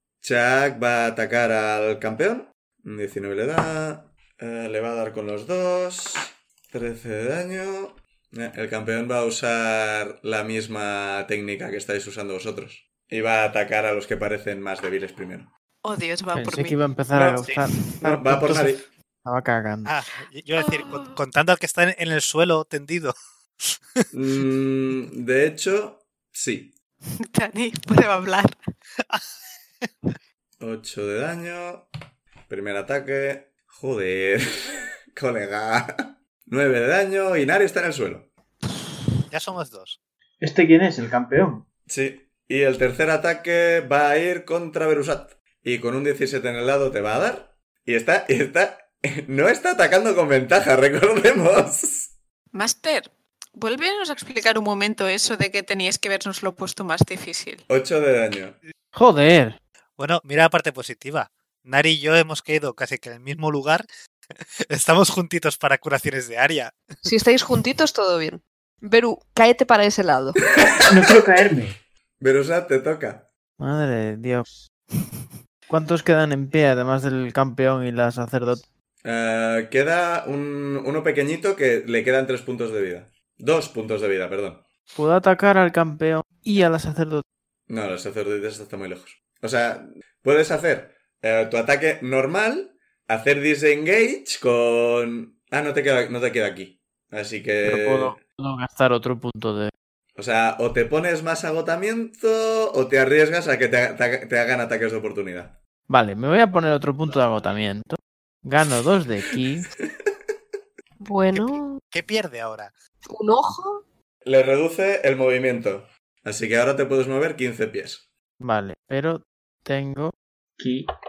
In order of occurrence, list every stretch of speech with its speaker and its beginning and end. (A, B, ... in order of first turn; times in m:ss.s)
0:00.2-0:15.5 A
0:15.8-0:16.8 B
0:16.3-0:19.9 C
0:17.1-0:18.8 A
0:19.8-0:23.1 D
0:20.6-0:21.1 B
0:23.7-0:24.1 D
0:24.1-0:26.8 A
0:27.2-0:28.6 B
0:29.1-0:30.1 D
0:30.6-0:31.9 A
0:32.5-0:38.3 A
0:39.3-0:40.0 D
0:40.4-0:41.6 E
0:41.9-0:52.1 A
0:52.5-0:57.6 B
0:57.7-0:58.6 A
0:58.9-0:59.6 C
1:00.0-1:03.9 D
1:04.7-1:06.8 D
1:07.0-1:10.4 F
1:10.6-1:11.3 A
1:10.9-1:11.8 E
1:12.2-1:13.2 A
1:13.6-1:14.5 C
1:15.7-1:18.7 C
1:19.0-1:24.6 A
1:25.0-1:27.2 C
1:27.7-1:38.2 A
1:37.6-1:39.7 C
1:40.2-1:45.6 A
1:45.9-1:49.7 C
1:51.0-1:51.8 F
1:51.3-1:52.7 D
1:53.1-1:53.8 F
1:54.2-1:58.1 A
1:58.4-2:00.1 C
2:00.6-2:00.9 E